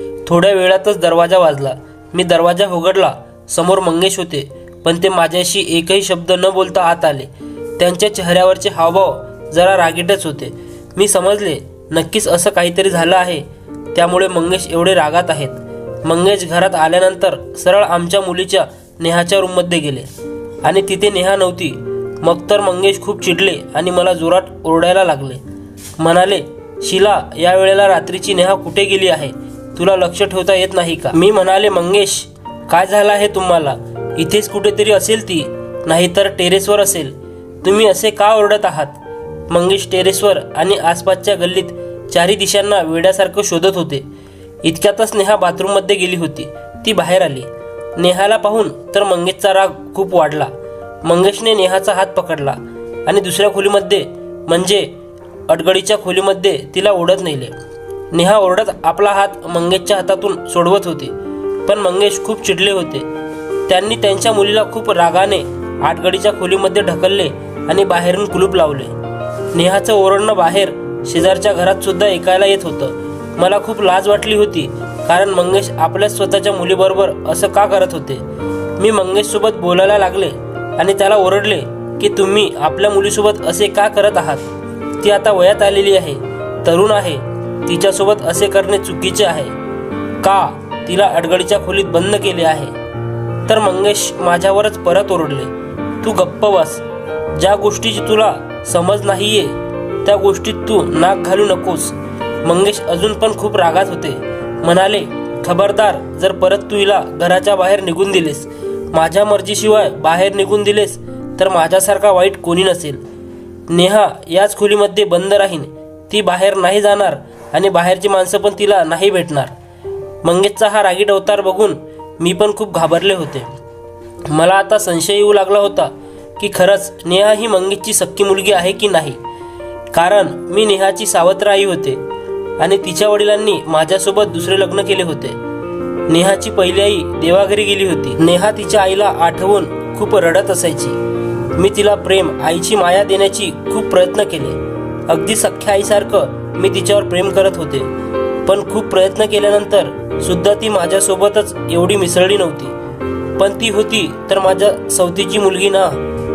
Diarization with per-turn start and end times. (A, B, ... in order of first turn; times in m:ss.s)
0:00.2-0:20.1 A
0:20.6-0:25.4 A
0:26.0-0:39.0 A
0:39.5-0:44.0 A
0:44.6-0:50.5 A
0:51.0-0:54.9 A
0:55.5-0:57.5 A
0:58.1-1:01.1 A
1:01.6-1:03.0 A
1:03.7-1:08.9 A
1:09.5-1:18.2 A
1:18.8-1:24.4 A
1:25.0-1:29.5 A
1:30.2-1:32.7 A
1:33.4-1:35.5 A
1:36.0-1:53.0 A
1:53.7-1:59.5 A
2:00.2-2:03.5 A
2:04.3-2:09.2 A
2:09.9-2:12.0 A
2:12.6-2:15.4 A
2:16.1-2:21.0 A
2:21.5-2:27.9 A
2:28.4-2:32.7 A
2:33.4-2:36.0 A